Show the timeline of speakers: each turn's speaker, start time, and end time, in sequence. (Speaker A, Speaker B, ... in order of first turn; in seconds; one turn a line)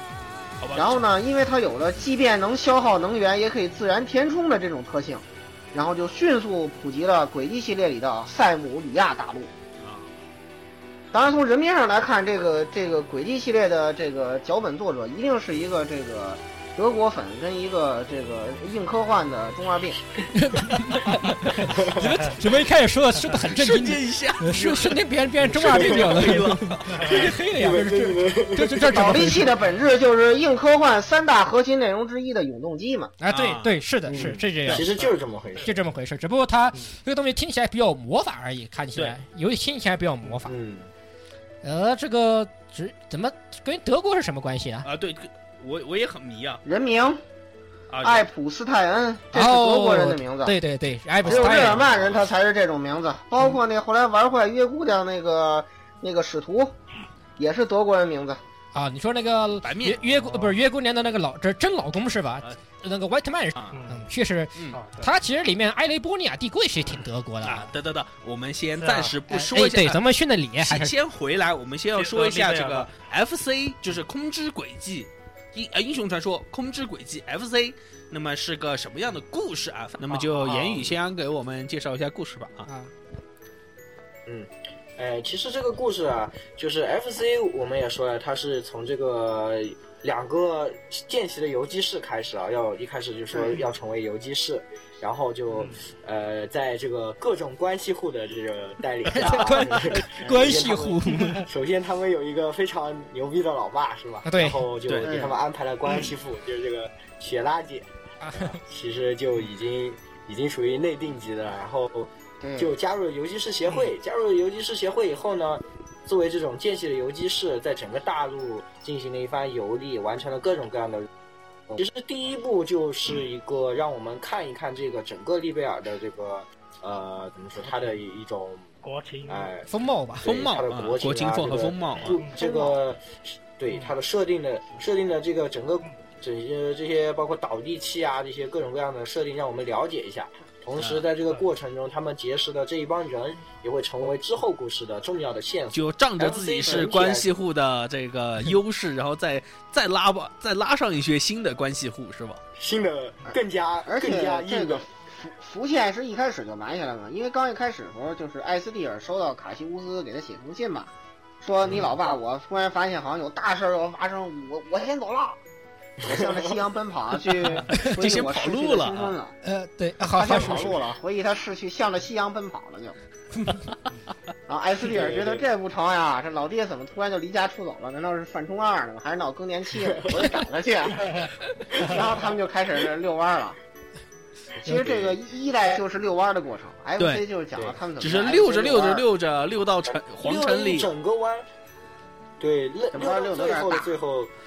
Speaker A: 0.6-1.1
Speaker B: 0.7-9.5
Speaker A: 9.8-10.1
Speaker B: 11.1-20.0
Speaker C: 20.3-29.5
Speaker A: 23.5-27.2
Speaker D: 25.7-26.0
Speaker D: 27.0-29.0
Speaker B: 28.9-33.1
Speaker C: 33.2-34.9
Speaker A: 33.3-33.8
Speaker D: 34.1-35.7
Speaker C: 35.6-40.5
Speaker D: 40.5-40.9
Speaker C: 41.6-44.9
Speaker A: 44.8-46.6
Speaker B: 46.6-47.2
Speaker A: 47.9-48.3
Speaker B: 48.0-50.5
Speaker C: 49.3-51.8
Speaker B: 51.2-56.8
Speaker A: 51.2-52.2
Speaker B: 57.4-58.4
Speaker C: 58.7-67.7
Speaker A: 59.6-60.6
Speaker E: 63.7-64.0
Speaker E: 64.7-65.1
Speaker A: 67.4-70.0
Speaker E: 68.8-69.2
Speaker C: 69.3-70.9
Speaker A: 70.6-82.7
Speaker E: 71.9-72.9
Speaker D: 80.2-80.9
Speaker C: 82.7-82.9
Speaker D: 84.2-121.1
Speaker C: 99.1-101.4
Speaker C: 104.2-104.7
Speaker B: 105.0-105.4
Speaker C: 108.2-108.6
Speaker B: 112.4-112.7
Speaker D: 121.7-128.7
Speaker E: 128.8-129.5
Speaker D: 129.3-129.7
Speaker C: 129.7-130.3
Speaker D: 130.2-147.3
Speaker A: 130.2-132.2
Speaker B: 132.3-132.8
Speaker A: 140.8-141.1
Speaker A: 145.7-152.4
Speaker D: 152.6-154.9
Speaker B: 153.9-165.4
Speaker B: 166.0-169.3
Speaker D: 166.0-166.6
Speaker A: 167.7-169.2
Speaker C: 169.4-170.7
Speaker B: 170.1-172.9
Speaker D: 170.3-170.7
Speaker B: 174.5-183.6
Speaker D: 174.8-175.5
Speaker B: 184.6-189.0
Speaker D: 184.7-185.2
Speaker A: 187.0-187.2
Speaker D: 187.5-187.8
Speaker A: 188.0-190.9
Speaker D: 189.9-191.4
Speaker D: 192.4-194.3
Speaker B: 192.9-193.9